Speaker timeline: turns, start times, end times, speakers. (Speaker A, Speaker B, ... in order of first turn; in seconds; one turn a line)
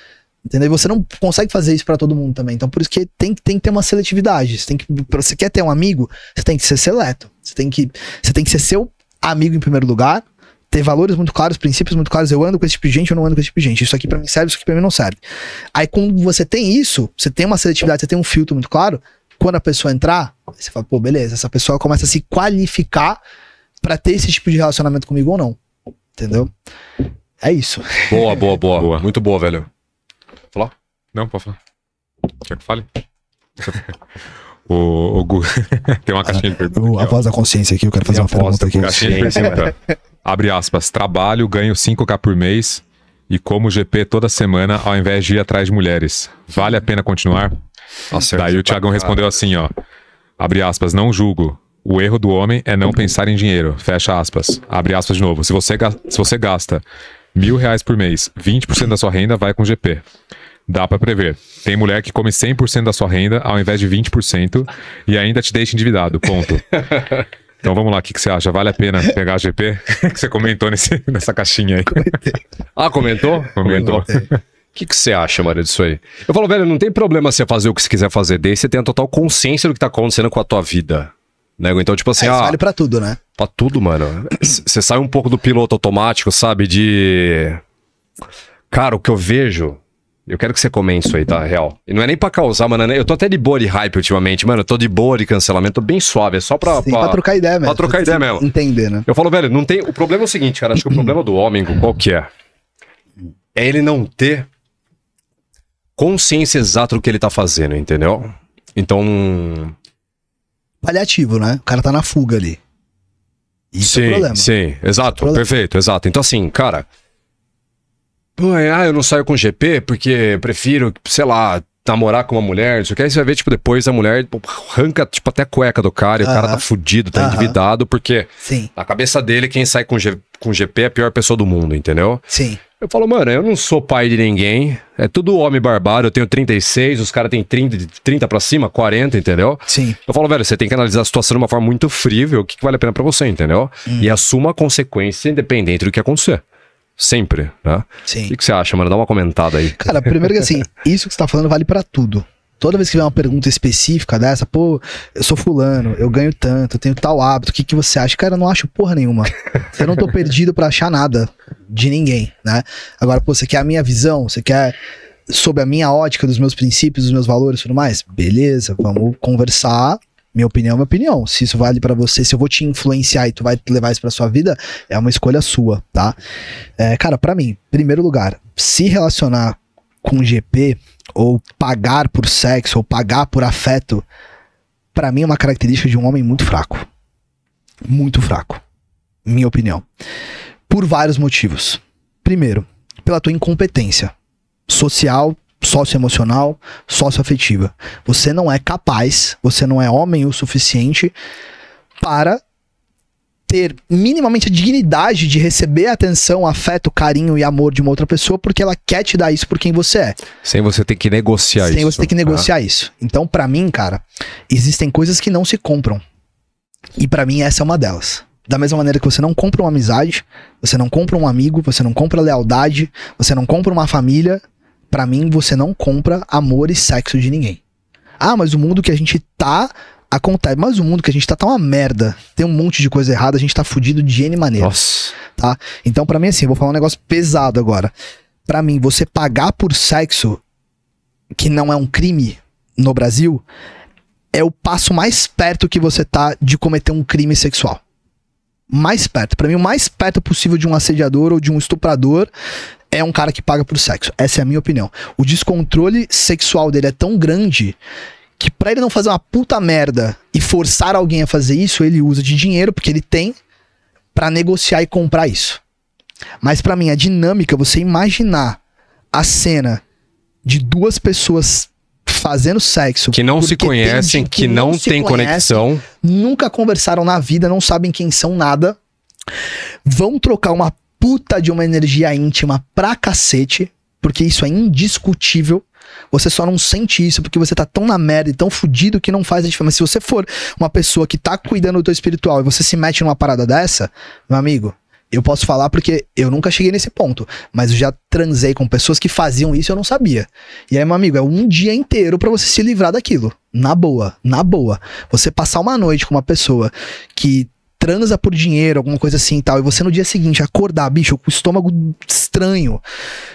Speaker A: 0.5-15.2
Speaker A: 15.8-23.2
Speaker A: 23.8-25.6
Speaker A: 26.2-26.5
Speaker A: 27.4-28.4
Speaker B: 28.1-29.7
Speaker C: 28.8-29.0
Speaker C: 31.1-31.6
Speaker C: 32.4-32.9
Speaker C: 33.6-33.9
Speaker C: 34.7-37.2
Speaker A: 36.3-39.5
Speaker B: 38.1-39.7
Speaker C: 38.1-47.5
Speaker B: 48.1-49.3
Speaker C: 48.1-49.7
Speaker C: 50.4-56.8
Speaker C: 57.4-60.0
Speaker C: 60.7-67.1
Speaker B: 66.8-67.2
Speaker C: 67.6-72.3
Speaker A: 71.9-72.4
Speaker B: 72.8-74.1
Speaker C: 73.6-74.3
Speaker A: 73.8-74.2
Speaker B: 74.7-82.6
Speaker A: 82.2-83.2
Speaker B: 83.4-87.6
Speaker B: 88.7-98.5
Speaker A: 96.7-99.0
Speaker B: 99.1-102.3
Speaker B: 103.5-104.5
Speaker B: 106.0-109.8
Speaker A: 110.8-112.6
Speaker A: 113.7-114.5
Speaker B: 113.8-116.9
Speaker B: 118.4-132.2
Speaker A: 126.2-126.6
Speaker A: 127.1-127.6
Speaker A: 128.4-128.7
Speaker A: 132.3-132.6
Speaker B: 132.8-146.4
Speaker A: 139.7-140.0
Speaker A: 143.9-144.2
Speaker B: 147.0-150.2
Speaker A: 148.1-148.3
Speaker A: 149.8-164.8
Speaker A: 165.3-176.2
Speaker A: 176.8-184.1
Speaker A: 184.9-186.9
Speaker A: 187.8-188.6
Speaker A: 189.2-189.8
Speaker A: 190.7-194.1
Speaker A: 194.7-201.1
Speaker A: 202.0-202.4
Speaker A: 203.5-210.2
Speaker B: 210.4-212.5
Speaker A: 211.6-216.0
Speaker A: 217.0-227.6
Speaker A: 228.2-237.9
Speaker B: 234.6-235.1
Speaker A: 238.5-240.4
Speaker A: 241.3-243.4
Speaker A: 244.3-247.8
Speaker A: 248.7-252.3
Speaker A: 252.9-257.8
Speaker A: 258.4-263.4
Speaker A: 264.1-265.6
Speaker A: 266.4-268.6
Speaker A: 269.1-269.8
Speaker A: 270.4-278.8
Speaker B: 273.1-275.8
Speaker A: 279.9-312.8